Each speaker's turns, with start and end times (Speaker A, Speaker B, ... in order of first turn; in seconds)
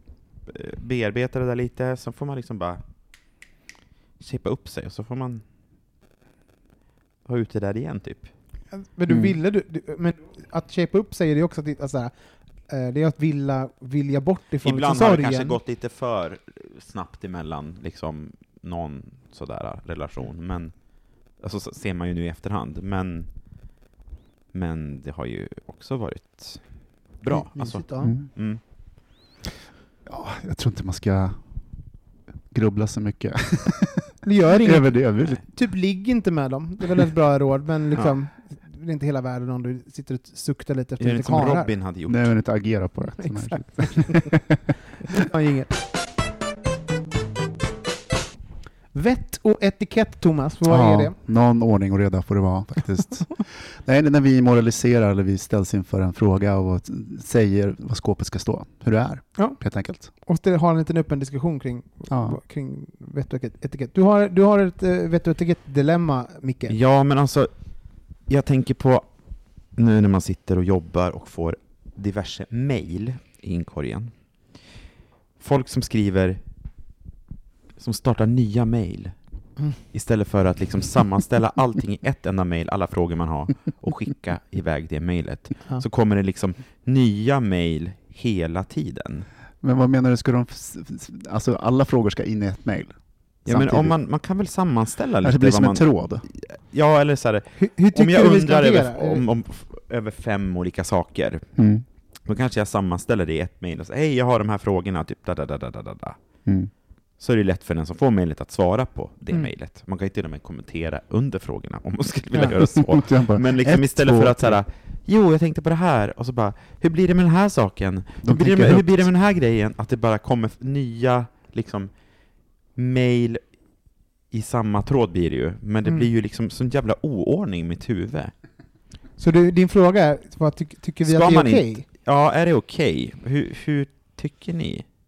Speaker A: 0.5-2.8, 4.2-5.4, 7.2-8.3, 14.6-23.3, 24.5-26.7, 27.2-28.6, 41.0-42.2, 66.7-67.5, 68.3-69.1, 69.8-74.1, 75.4-76.4, 77.8-79.2, 79.9-89.3, 93.5-101.5, 102.3-106.2, 107.2-121.9, 122.8-123.4, 124.3-128.3, 131.1-134.9
Speaker B: 8.7-12.1, 12.7-15.6, 27.3-28.1, 34.2-41.7, 43.2-44.2, 45.1-45.7, 48.9-51.1, 60.2-66.8, 97.6-99.2, 129.2-131.8
Speaker C: 9.1-9.3, 30.1-31.4, 32.5-35.4, 42.1-44.4, 50.7-60.1, 62.1-62.4, 89.6-92.9, 93.5-94.0, 95.2-96.2, 101.6-101.8, 112.5-114.6, 118.2-119.1